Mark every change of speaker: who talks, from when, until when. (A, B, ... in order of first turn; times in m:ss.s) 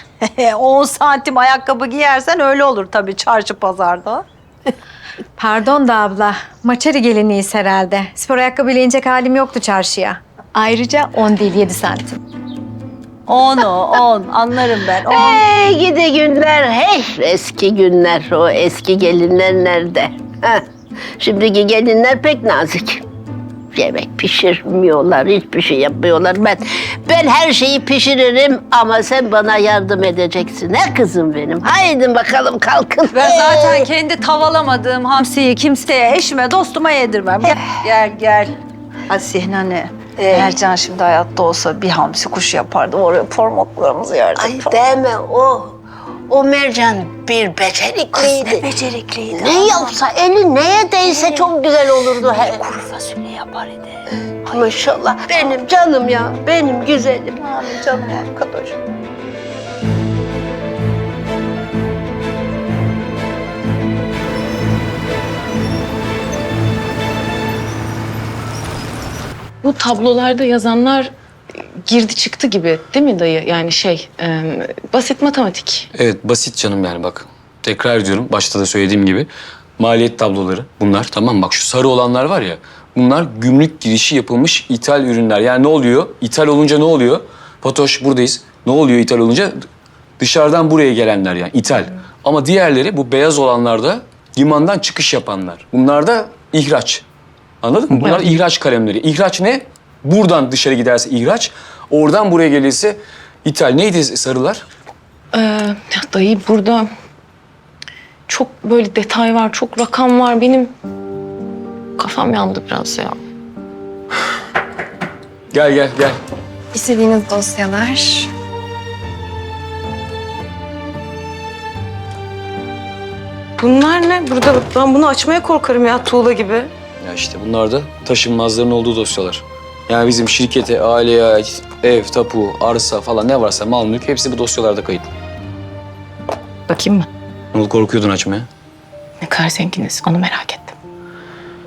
0:00.3-0:04.2 A
0:05.4-0:12.2 B
0:13.3-0:15.4 A
0:15.1-0:20.6 C
0:21.2-0:23.0 C
0:23.7-0:33.9 C
0:33.1-0:38.6 A
0:39.1-0:44.8 A
0:40.2-0:40.6 C
0:44.4-0:45.8 C
0:46.3-0:48.7 C
0:48.2-0:49.9 A
0:49.4-0:52.7 C
0:51.1-0:51.5 A
0:52.2-0:53.9 A
0:54.5-0:57.4 C
0:57.4-0:58.8 A
1:09.6-1:11.1 D
1:11.8-1:15.8 D
1:15.9-1:19.3 E
1:19.8-1:29.5 E
1:30.2-1:37.0 E
1:37.6-1:44.6 E
1:45.3-1:46.9 D
1:48.3-1:50.7 D
1:52.0-1:53.2 D
1:55.5-1:56.2 E
1:56.7-1:58.3 B
2:03.6-2:06.6 D
2:07.0-2:15.1 E
2:16.7-2:17.1 D
2:17.5-2:18.5 E
2:19.2-2:20.7 D